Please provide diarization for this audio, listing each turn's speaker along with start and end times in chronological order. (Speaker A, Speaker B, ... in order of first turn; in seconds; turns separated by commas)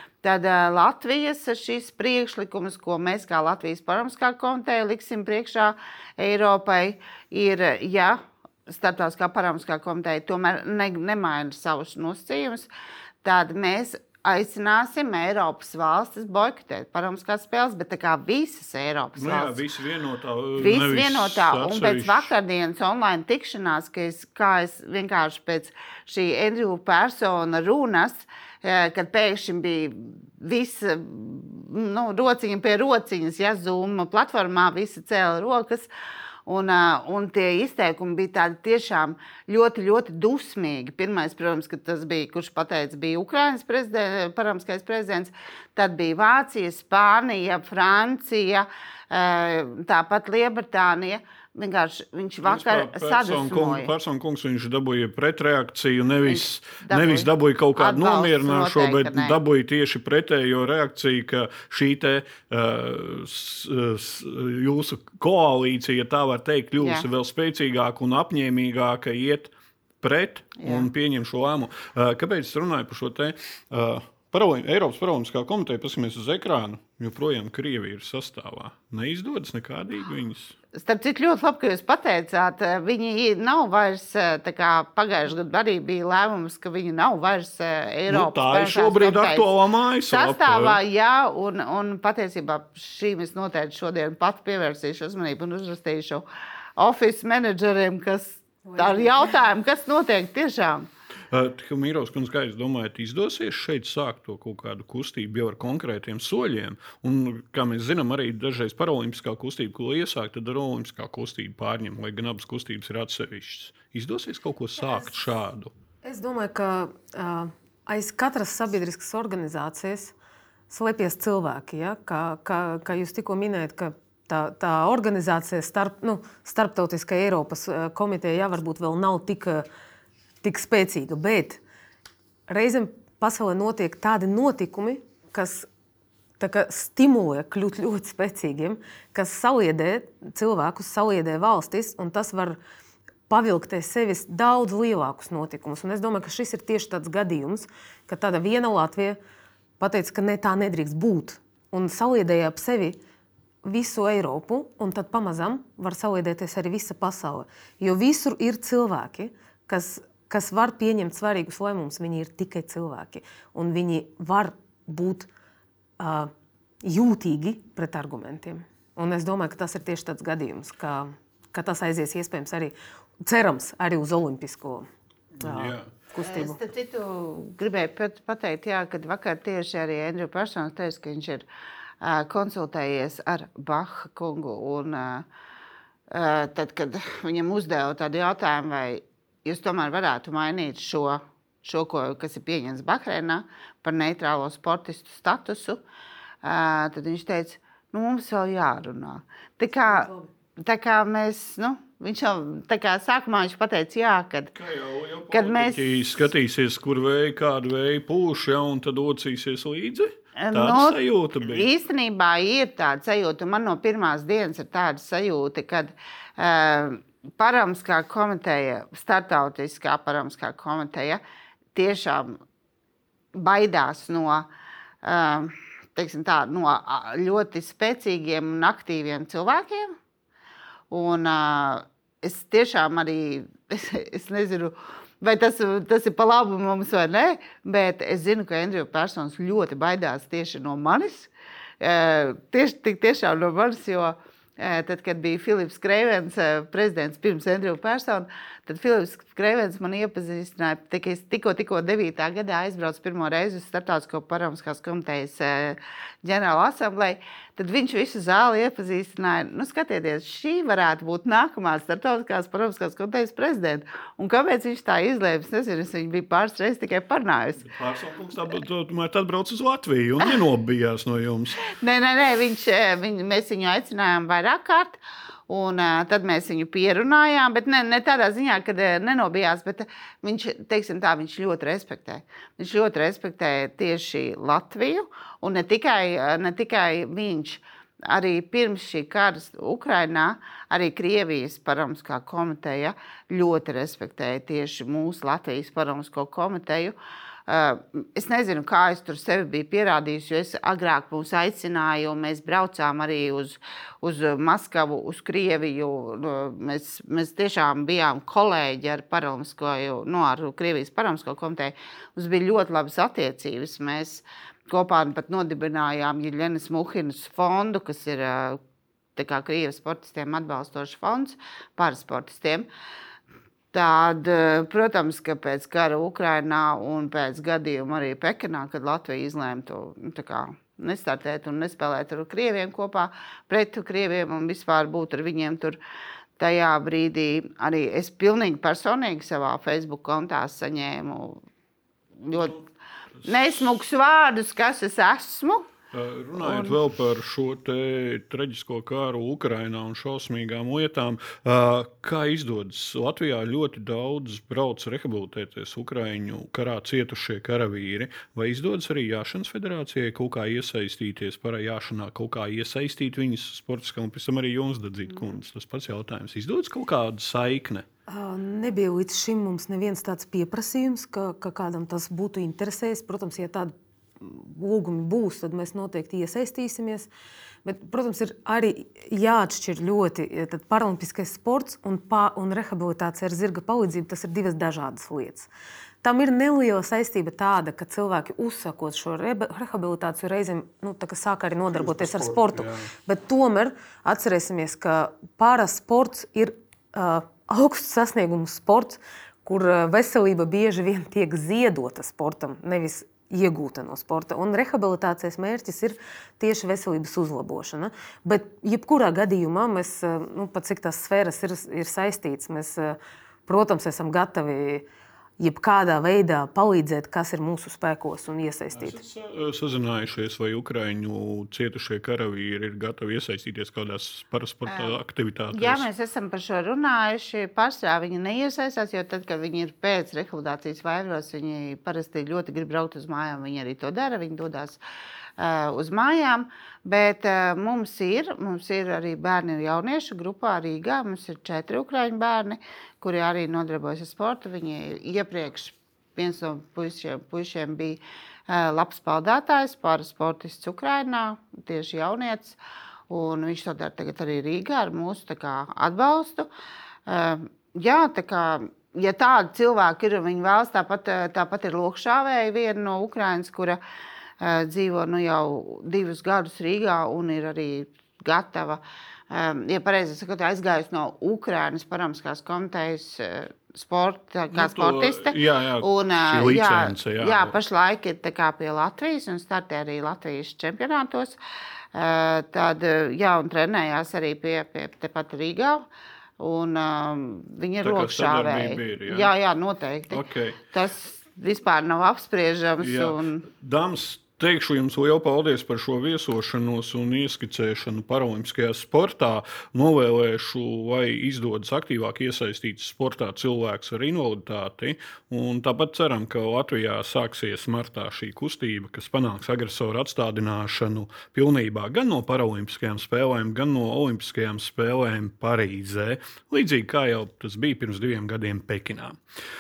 Speaker A: 0.2-12.7, Speaker A: 13.2-19.6, Speaker B: 19.1-22.3, Speaker A: 20.6-35.9, Speaker A: 36.5-53.9, Speaker B: 52.4-80.6, Speaker A: 56.3-59.4, Speaker A: 70.6-70.9, Speaker A: 80.7-89.5, Speaker B: 88.1-90.8, Speaker A: 90.1-96.2, Speaker A: 96.8-100.9, Speaker C: 98.6-99.3, Speaker B: 101.3-115.7, Speaker C: 116.0-120.2, Speaker C: 120.7-129.7, Speaker C: 130.4-131.6, Speaker C: 132.5-135.7, Speaker C: 136.4-142.6, Speaker C: 143.3-149.2, Speaker C: 149.8-153.0, Speaker C: 153.6-165.3, Speaker C: 166.0-166.3, Speaker C: 166.8-174.9, Speaker B: 175.4-175.9, Speaker C: 175.4-176.6, Speaker A: 176.2-181.5, Speaker A: 182.0-185.3, Speaker A: 186.1-195.8, Speaker A: 196.4-204.5, Speaker C: 199.8-200.3, Speaker B: 204.5-211.7, Speaker A: 205.3-206.2, Speaker A: 210.4-221.2, Speaker A: 221.8-222.4, Speaker A: 223.3-224.5, Speaker A: 225.0-229.9, Speaker A: 230.9-267.7, Speaker B: 267.6-271.7, Speaker A: 271.6-297.0, Speaker A: 297.5-318.6, Speaker A: 319.2-322.7, Speaker A: 323.7-335.8, Speaker A: 336.4-341.4, Speaker A: 342.2-342.6, Speaker B: 342.3-342.6, Speaker A: 343.2-345.7, Speaker B: 345.9-367.9, Speaker A: 346.4-346.8, Speaker C: 368.1-377.1, Speaker C: 377.6-385.5, Speaker C: 386.0-414.9, Speaker B: 391.7-392.9, Speaker C: 415.4-419.0, Speaker B: 418.7-425.9, Speaker A: 424.7-425.0, Speaker A: 425.5-434.8, Speaker A: 435.4-452.6, Speaker A: 453.1-456.5, Speaker A: 457.1-463.8, Speaker A: 464.4-481.4, Speaker B: 474.5-477.6, Speaker A: 481.9-485.9, Speaker A: 486.4-493.4, Speaker B: 487.8-489.3, Speaker B: 490.1-490.6, Speaker B: 492.8-519.2